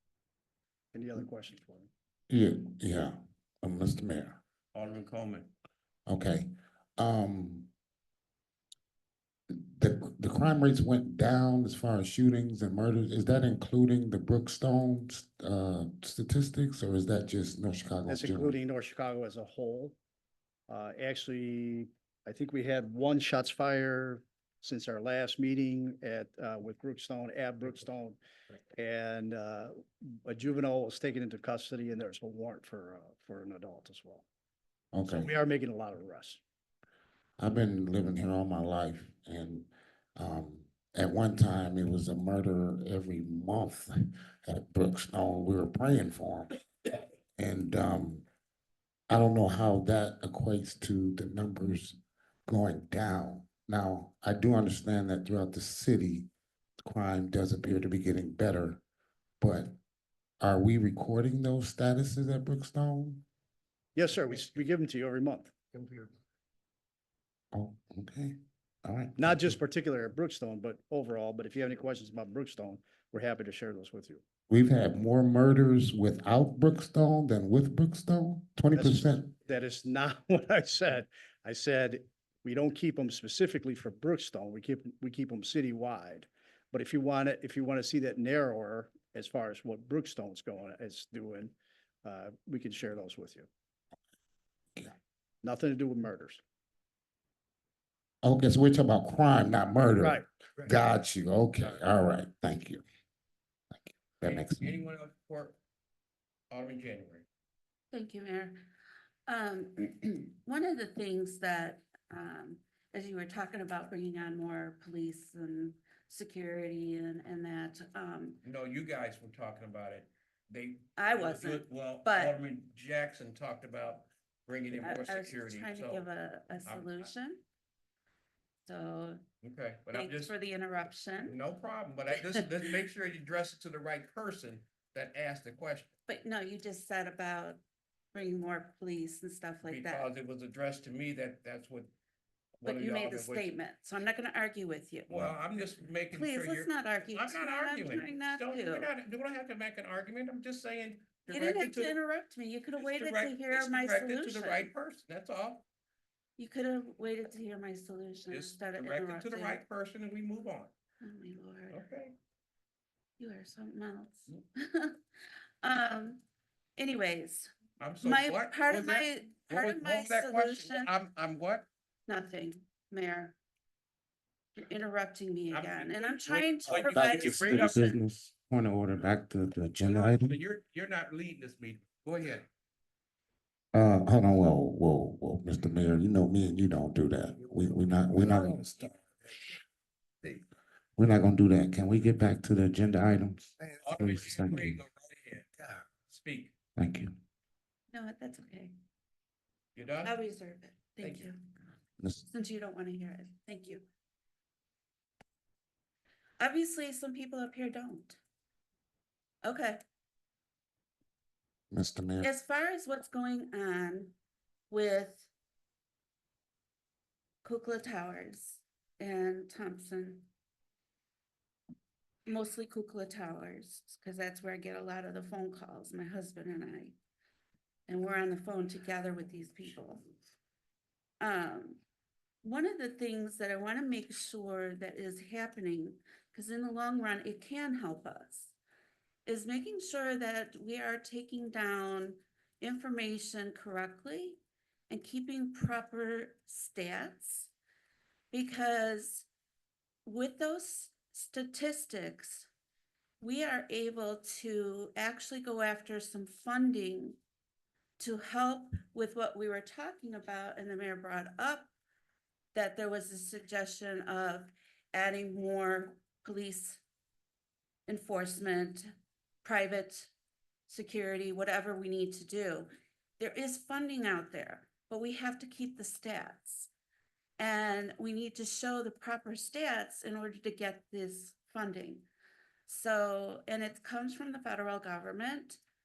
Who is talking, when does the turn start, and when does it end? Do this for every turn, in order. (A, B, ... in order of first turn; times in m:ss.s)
0:00.9-0:01.9 A
0:02.3-0:04.4 B
0:04.8-0:05.5 C
0:06.1-0:07.7 B
0:09.5-0:18.6 B
0:18.1-0:20.0 A
0:20.7-0:28.2 A
0:28.7-0:34.2 A
0:34.9-0:35.3 B
0:35.0-0:36.4 A
0:37.4-0:43.9 B
0:44.4-0:46.5 B
0:47.4-0:48.2 B
0:49.1-0:56.3 B
0:56.8-0:58.8 B
0:59.4-0:59.8 B
1:00.4-1:03.2 B
1:04.0-1:05.9 A
1:07.5-1:09.6 B
1:09.2-1:14.2 A
1:14.5-1:19.3 B
1:18.7-1:33.5 A
1:35.4-1:36.4 A
1:38.2-1:42.8 B
1:43.7-1:44.8 B
1:44.2-1:45.6 C
1:46.5-1:47.3 C
1:47.9-1:48.6 D
1:49.3-1:58.4 D
1:58.4-2:06.1 C
2:01.0-2:02.4 D
2:04.8-2:07.4 D
2:06.6-2:07.1 C
2:08.7-2:09.2 D
2:09.4-2:10.3 C
2:09.9-2:11.4 D
2:11.2-2:15.9 C
2:16.1-2:17.6 D
2:18.1-2:20.1 D
2:19.6-2:21.9 C
2:22.6-2:23.5 C
2:22.6-2:25.4 D
2:25.1-2:32.0 C
2:26.1-2:28.9 D
2:31.3-2:34.7 D
2:32.8-2:35.6 C
2:36.4-2:39.6 D
2:38.3-2:40.7 C
2:41.0-2:41.8 D
2:41.7-2:42.2 C
2:43.2-2:45.0 D
2:45.6-2:46.2 D
2:46.8-2:47.5 D
2:47.8-2:51.7 C
2:48.0-2:50.9 D
2:52.1-2:53.4 D
2:54.6-2:58.0 D
2:55.5-2:58.0 C
2:56.7-3:00.4 B
2:59.8-3:02.5 C
3:03.7-3:09.0 B
3:11.0-3:14.8 B
3:13.8-3:16.5 C
3:16.8-3:17.1 B
3:17.9-3:18.7 D
3:19.8-3:20.2 C
3:20.0-3:21.4 D
3:21.0-3:21.3 C
3:22.0-3:22.2 B
3:22.3-3:23.8 D
3:26.4-3:28.2 D
3:29.4-3:29.8 D
3:31.7-3:32.3 B
3:32.2-3:34.2 D
3:34.7-3:35.3 D
3:37.4-3:40.3 D
3:42.3-3:47.0 D
3:47.9-3:50.1 D
3:51.2-3:51.8 D
3:52.4-3:58.5 D
3:59.3-4:07.5 D
4:08.3-4:09.3 D
4:10.0-4:12.5 D
4:13.2-4:17.2 D
4:18.0-4:21.7 D
4:22.5-4:26.8 D
4:27.9-4:28.9 D
4:29.4-4:30.1 D
4:30.7-4:36.7 D
4:37.4-4:42.0 D
4:42.7-4:45.6 D